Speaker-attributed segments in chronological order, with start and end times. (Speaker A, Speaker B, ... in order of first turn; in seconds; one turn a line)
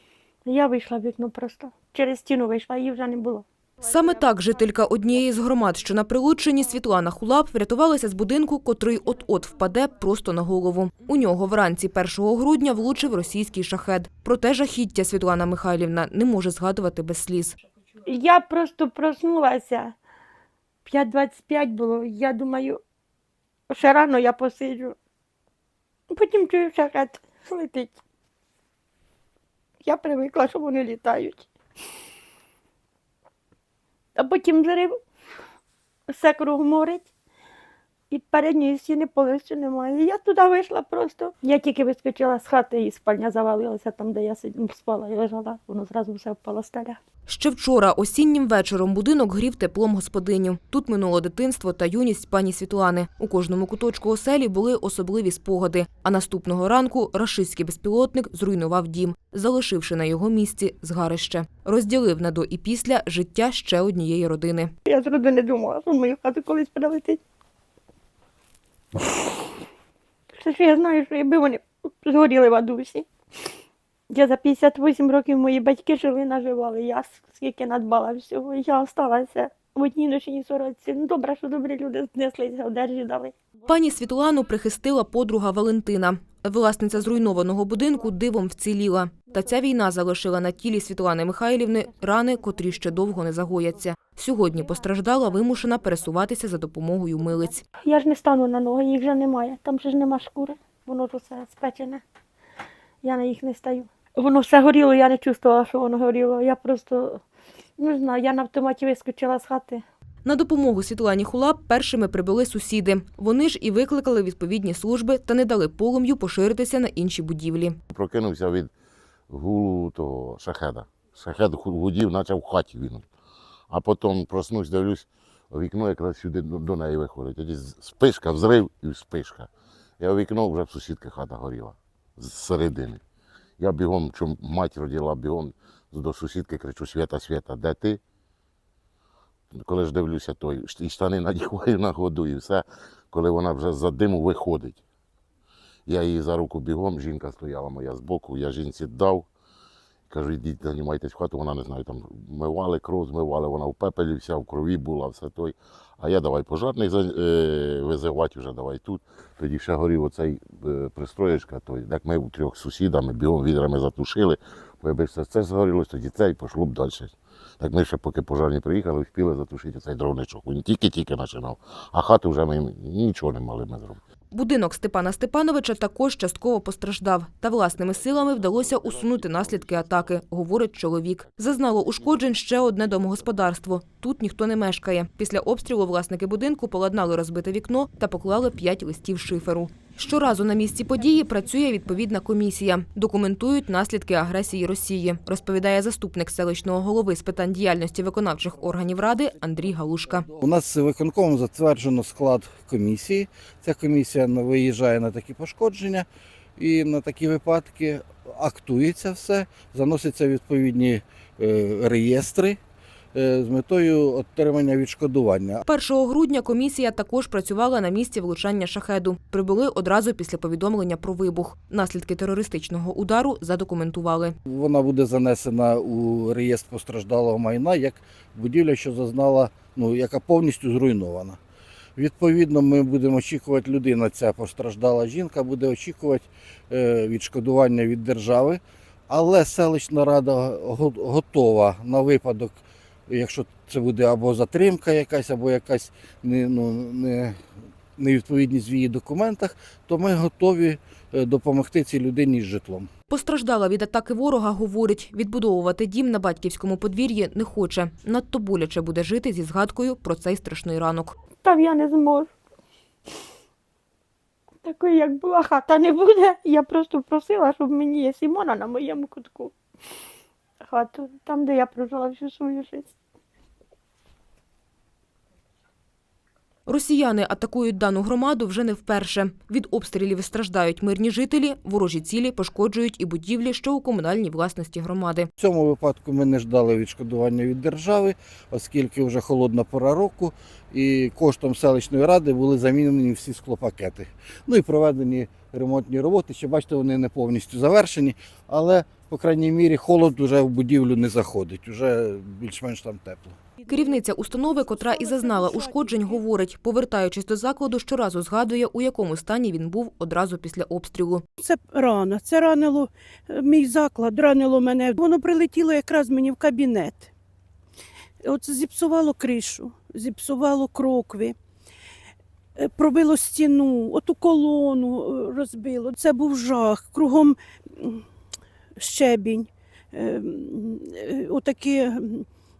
Speaker A: 0.4-3.4
Speaker B: 3.8-17.6
Speaker A: 18.1-19.9
Speaker A: 20.8-22.8
Speaker A: 23.7-25.0
Speaker A: 26.1-28.0
Speaker A: 29.8-31.5
Speaker A: 34.1-35.0
Speaker A: 36.1-37.1
Speaker A: 38.1-47.0
Speaker B: 47.3-64.7
Speaker A: 64.8-67.2
Speaker A: 70.3-73.0
Speaker A: 74.1-83.3
Speaker B: 83.7-97.6
Speaker A: 97.8-102.0
Speaker A: 103.0-107.2
Speaker A: 107.8-109.8
Speaker B: 110.2-117.8
Speaker C: 117.9-118.7
Speaker C: 119.3-123.0
Speaker C: 123.7-129.5
Speaker C: 130.0-133.0
Speaker C: 133.6-138.0
Speaker C: 139.5-144.8
Speaker C: 145.8-149.3
Speaker C: 150.1-174.0
Speaker B: 174.3-200.3
Speaker C: 178.1-180.0
Speaker D: 200.3-206.1
Speaker D: 206.6-212.6
Speaker D: 213.1-215.6
Speaker B: 215.6-224.3
Speaker D: 224.4-231.4
Speaker D: 232.0-247.4
Speaker D: 248.0-252.9
Speaker B: 253.1-261.2
Speaker A: 261.4-262.3
Speaker A: 264.6-269.5
Speaker A: 270.6-272.9
Speaker B: 276.7-285.3
Speaker D: 285.4-303.4
Speaker B: 303.7-311.2
Speaker E: 304.8-306.2
Speaker E: 311.4-317.1
Speaker E: 318.2-321.3
Speaker E: 322.6-328.0
Speaker E: 328.8-332.2